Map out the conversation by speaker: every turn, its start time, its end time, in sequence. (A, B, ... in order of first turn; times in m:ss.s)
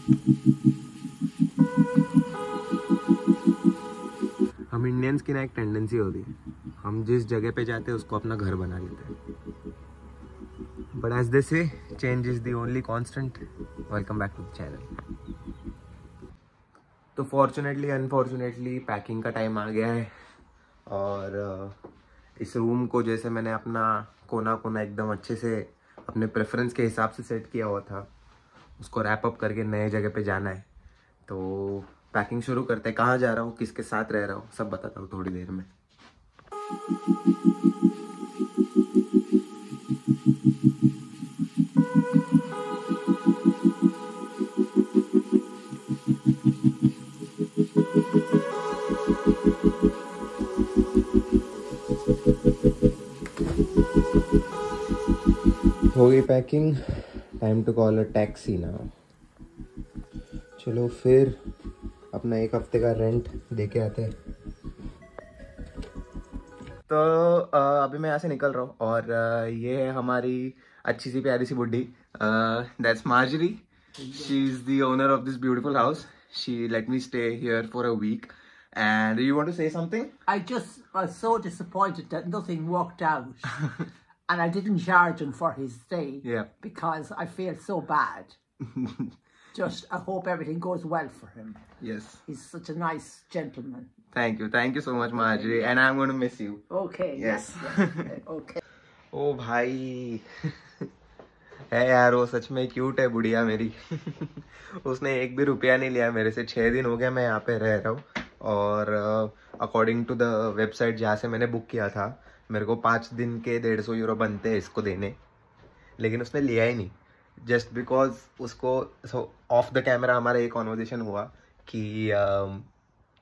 0:04.7-0:09.1 A
0:10.9-0:14.9 A
0:17.2-0:20.1 A
0:20.9-0:21.7 A
0:22.4-0:28.1 A
0:28.8-0:30.7 A
0:31.3-0:35.7 A
0:55.9-0:58.9 A
1:00.6-1:01.4 A
1:02.1-1:04.1 A
1:06.9-1:20.1 A
1:14.0-1:14.4 B
1:20.3-1:23.6 B
1:24.3-1:28.4 B
1:26.2-1:26.5 A
1:28.7-1:29.1 A
1:29.5-1:31.6 B
1:31.8-1:32.2 A
1:32.2-1:33.9 B
1:34.1-1:36.6 A
1:35.1-1:35.7 B
1:36.7-1:38.6 B
1:37.2-1:38.1 A
1:39.1-1:40.3 A
1:41.7-1:55.2 A
1:56.0-2:02.7 A